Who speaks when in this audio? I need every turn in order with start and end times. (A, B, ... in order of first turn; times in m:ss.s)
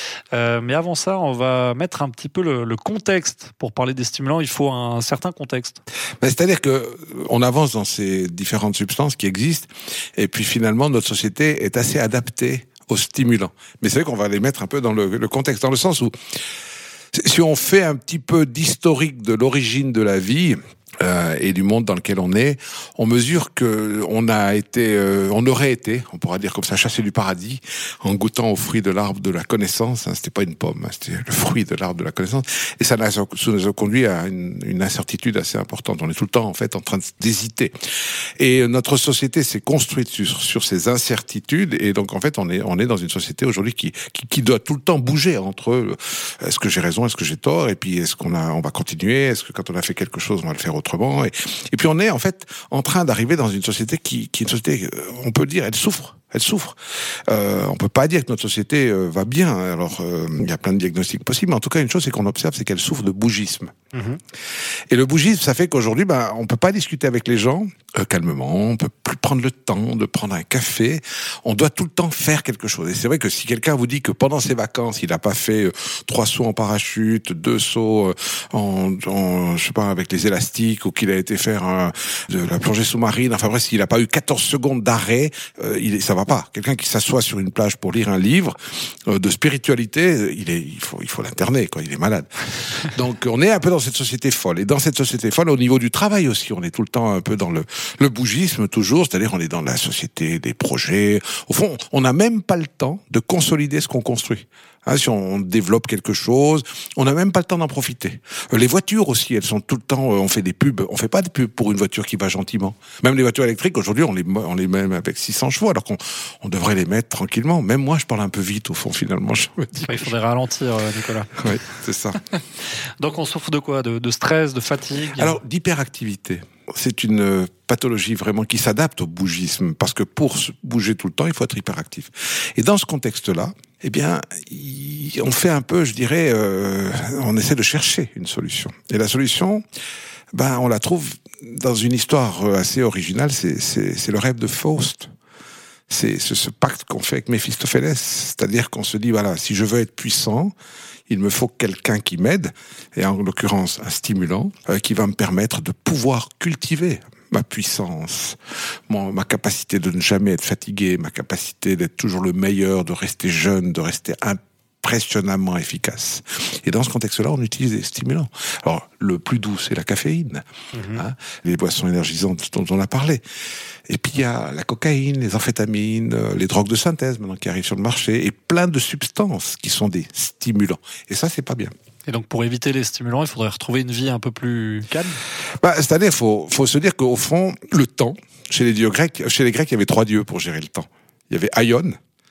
0:00.3-0:05.8 A
0:06.2-0:16.1 B
0:17.1-0:37.7 B
0:38.4-1:03.7 B
1:03.9-1:04.2 A
1:04.9-2:00.1 B
1:59.8-2:01.5 A
2:01.3-2:02.2 B
2:02.3-2:05.4 A
2:05.1-2:19.6 B
2:20.3-2:25.1 B
2:25.9-2:30.5 B
2:31.1-2:53.2 B
2:50.7-2:51.0 A
2:53.9-3:01.7 B
3:02.1-3:05.2 A
3:05.6-3:12.0 B